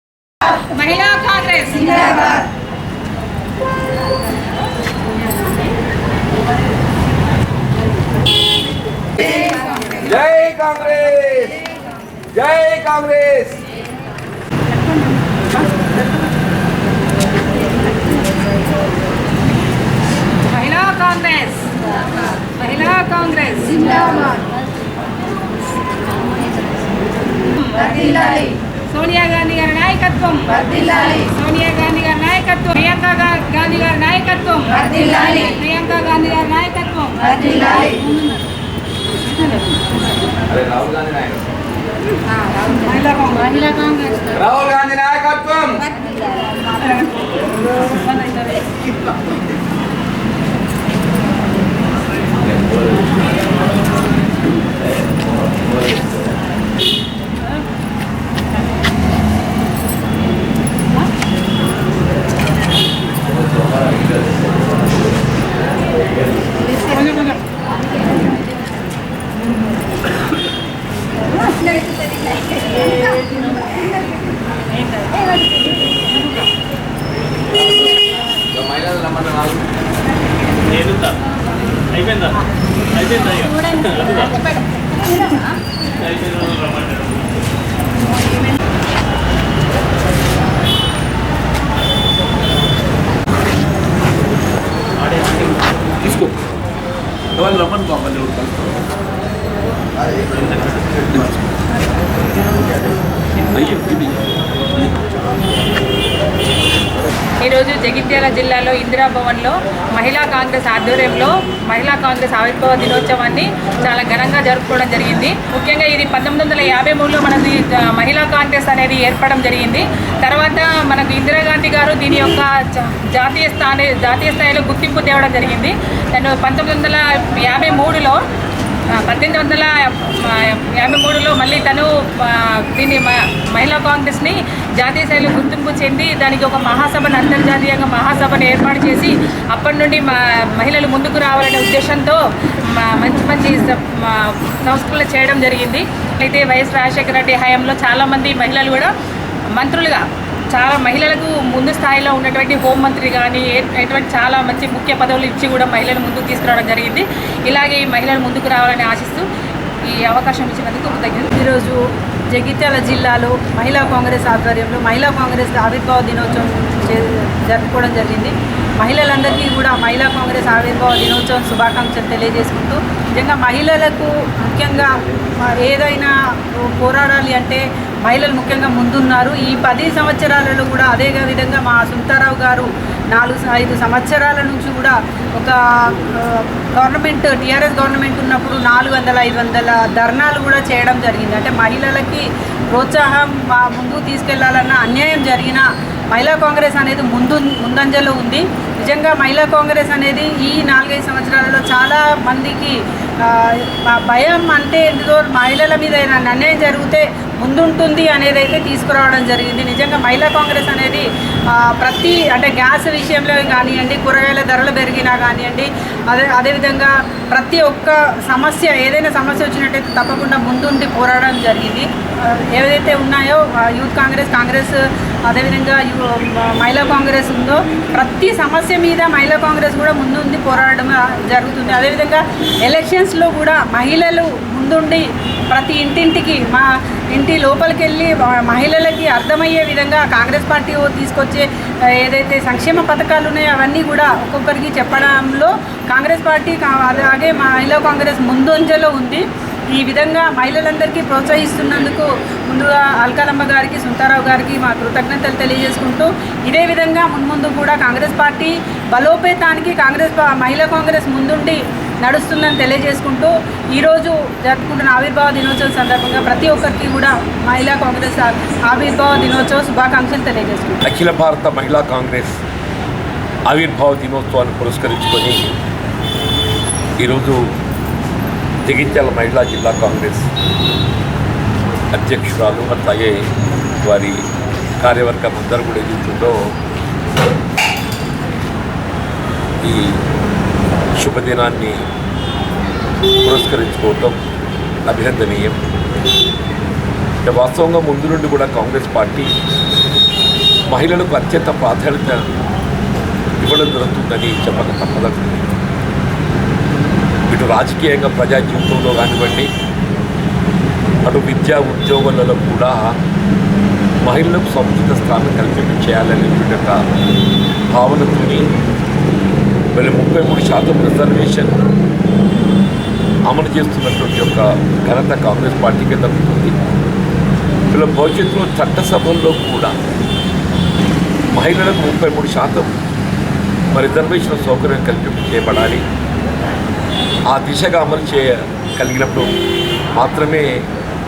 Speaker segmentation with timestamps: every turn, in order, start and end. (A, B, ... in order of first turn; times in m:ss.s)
0:00.5-0:02.4 A
0:10.0-0:11.6 B
0:12.4-0:13.6 B
0:15.6-0:15.9 A
0:20.5-0:21.8 A
0:22.4-0:24.4 A
0:27.6-0:38.4 A
0:39.4-0:39.8 A
0:40.5-0:41.4 B
0:42.6-0:44.1 A
0:43.1-0:43.6 C
0:44.3-0:45.8 B
0:48.1-0:48.4 C
1:06.9-1:07.2 A
1:18.7-1:19.6 B
1:23.0-1:24.5 A
1:36.0-1:36.3 B
1:37.4-1:38.8 B
1:40.8-1:41.4 B
1:43.5-1:44.2 B
1:47.4-2:08.2 A
2:09.0-2:28.9 A
2:29.5-2:39.3 A
2:39.8-2:41.3 A
2:41.3-4:01.5 C
4:02.0-4:30.8 C
4:30.8-4:32.4 D
4:33.5-4:35.5 D
4:37.0-4:37.5 D
4:38.6-4:40.3 D
4:41.9-4:43.3 D
4:43.8-4:44.3 D
4:44.8-4:46.5 D
4:49.6-4:50.0 D
4:51.0-4:51.8 D
4:53.2-4:54.2 D
4:54.9-4:55.6 D
4:57.2-4:59.3 D
5:00.7-5:02.3 D
5:03.4-5:05.5 D
5:07.3-5:09.5 D
5:11.0-5:13.0 D
5:14.0-5:16.8 D
5:17.7-5:18.5 D
5:19.8-5:21.6 D
5:23.3-5:26.6 D
5:27.7-5:29.8 D
5:31.3-5:32.7 D
5:33.7-5:35.8 D
5:37.3-5:39.3 D
5:40.0-5:40.7 D